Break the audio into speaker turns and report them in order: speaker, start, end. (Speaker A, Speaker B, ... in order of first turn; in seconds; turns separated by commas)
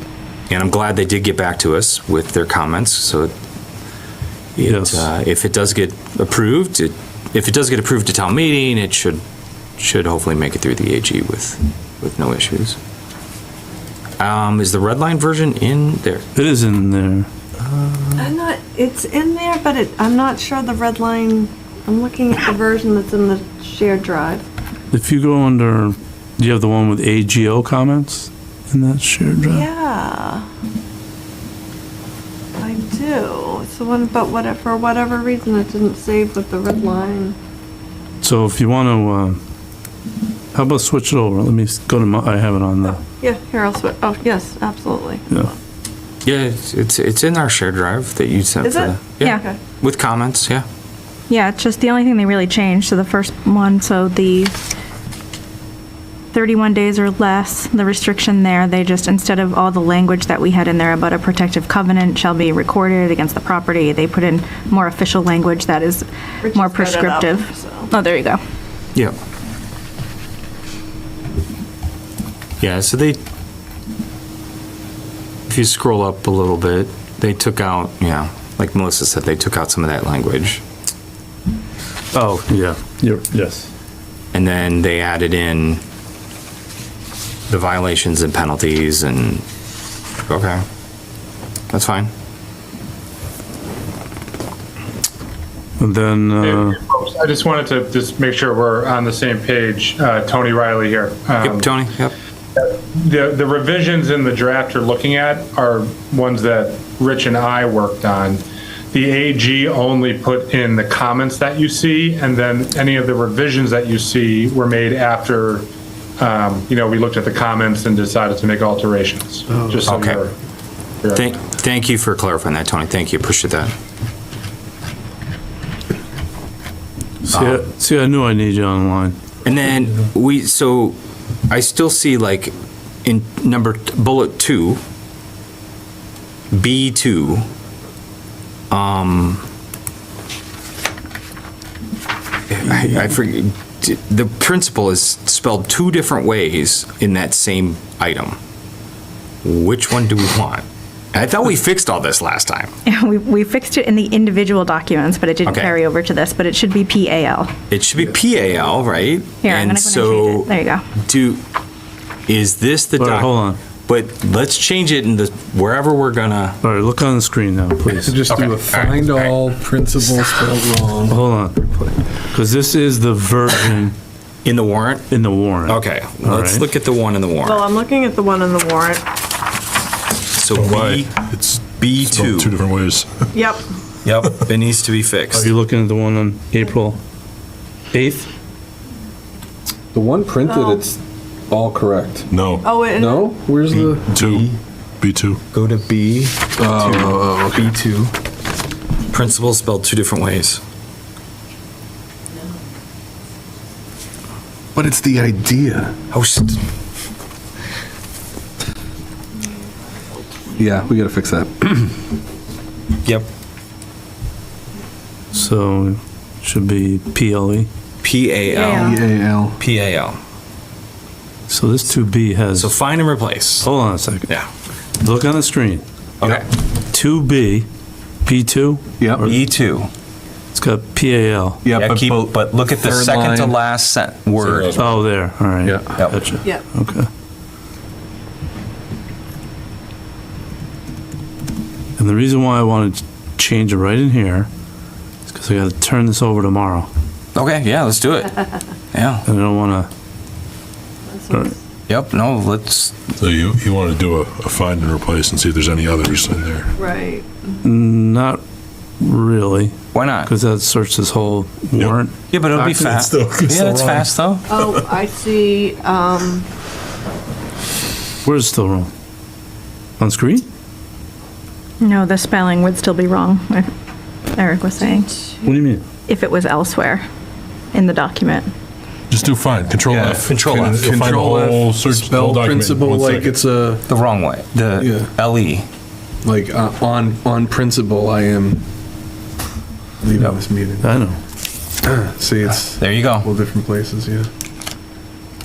Speaker A: 0.5-3.3, Speaker A: 4.5-9.2, Speaker B: 4.6-5.1, Speaker A: 9.8-12.8, Speaker A: 14.2-16.2, Speaker B: 16.3-17.3, Speaker A: 17.6-18.2, Speaker C: 18.2-24.4, Speaker B: 24.9-29.7, Speaker C: 29.4-30.4, Speaker C: 32.6-37.4, Speaker B: 38.2-39.4, Speaker B: 40.5-43.0, Speaker C: 43.2-45.5, Speaker A: 46.2-50.6, Speaker C: 48.6-49.6, Speaker D: 49.2-49.4, Speaker D: 51.3-54.5, Speaker D: 56.3-68.4, Speaker C: 66.5-67.9, Speaker A: 72.6-73.2, Speaker A: 75.5-80.6, Speaker B: 82.1-83.7, Speaker A: 84.3-85.8, Speaker A: 87.5-89.4, Speaker A: 90.3-90.6, Speaker A: 91.7-92.1, Speaker B: 95.8-96.8, Speaker E: 96.4-101.7, Speaker A: 101.4-102.1, Speaker E: 102.6-115.7, Speaker E: 116.2-120.3, Speaker A: 119.8-120.2, Speaker E: 121.0-121.3, Speaker A: 121.1-123.7, Speaker B: 127.2-129.2, Speaker A: 127.3-127.7, Speaker A: 129.4-131.0, Speaker A: 131.5-132.5, Speaker A: 133.0-134.8, Speaker A: 136.5-137.4, Speaker A: 138.7-139.4, Speaker A: 142.5-148.4, Speaker A: 149.4-152.7, Speaker D: 152.8-157.5, Speaker A: 155.4-155.8, Speaker A: 157.7-161.4, Speaker D: 159.4-160.8, Speaker A: 162.3-163.3, Speaker B: 163.0-163.6, Speaker A: 163.9-166.6, Speaker B: 166.6-168.2, Speaker F: 167.9-171.2, Speaker A: 168.1-169.3, Speaker B: 171.1-171.8, Speaker B: 172.3-173.9, Speaker A: 174.4-175.1, Speaker B: 175.1-176.7, Speaker A: 175.7-177.6, Speaker C: 177.4-179.0, Speaker A: 180.3-181.2, Speaker G: 180.5-183.3, Speaker A: 181.8-182.5, Speaker C: 183.3-183.6, Speaker A: 184.0-185.5, Speaker B: 185.3-187.0, Speaker B: 187.9-188.3, Speaker F: 189.9-192.3, Speaker C: 190.4-190.8, Speaker G: 192.3-192.8, Speaker C: 192.6-193.3, Speaker F: 192.9-194.0, Speaker A: 193.7-194.6, Speaker G: 194.1-194.5, Speaker G: 195.0-195.4, Speaker A: 195.5-198.1, Speaker F: 196.6-197.8, Speaker A: 199.1-200.6, Speaker F: 204.7-205.9, Speaker A: 206.1-206.6, Speaker F: 210.6-212.0, Speaker A: 213.0-213.3, Speaker B: 215.3-217.7, Speaker A: 218.0-218.9, Speaker D: 218.5-219.0, Speaker F: 218.7-219.6, Speaker A: 219.6-220.2, Speaker B: 221.5-222.7, Speaker A: 222.5-223.7, Speaker B: 223.6-224.3, Speaker B: 225.0-225.8, Speaker A: 226.2-226.5, Speaker B: 226.9-227.7, Speaker B: 228.2-229.4, Speaker A: 229.2-229.9, Speaker B: 230.5-231.6, Speaker F: 231.6-233.6, Speaker A: 231.8-234.9, Speaker G: 234.4-235.0, Speaker B: 234.8-237.1, Speaker B: 242.0-244.5, Speaker B: 245.3-246.9, Speaker A: 247.3-248.3, Speaker A: 248.9-249.2, Speaker B: 249.2-249.9, Speaker C: 251.1-251.5, Speaker A: 251.9-253.0, Speaker G: 253.2-256.7, Speaker C: 256.8-257.5, Speaker B: 257.6-258.4, Speaker B: 259.0-262.1, Speaker A: 259.9-260.3, Speaker A: 262.3-264.5, Speaker G: 262.5-264.8, Speaker C: 264.5-266.4, Speaker B: 268.2-268.9, Speaker B: 270.0-270.4, Speaker D: 271.8-273.7, Speaker D: 274.3-275.1, Speaker C: 274.8-275.5, Speaker B: 275.4-275.8, Speaker D: 276.1-277.1, Speaker D: 277.7-278.5, Speaker G: 279.1-283.4, Speaker F: 279.9-283.8, Speaker A: 280.2-280.8, Speaker A: 283.9-285.6, Speaker F: 284.8-285.1, Speaker F: 286.2-288.6, Speaker F: 290.0-290.9, Speaker B: 290.8-291.2, Speaker F: 291.8-294.3, Speaker A: 292.7-293.3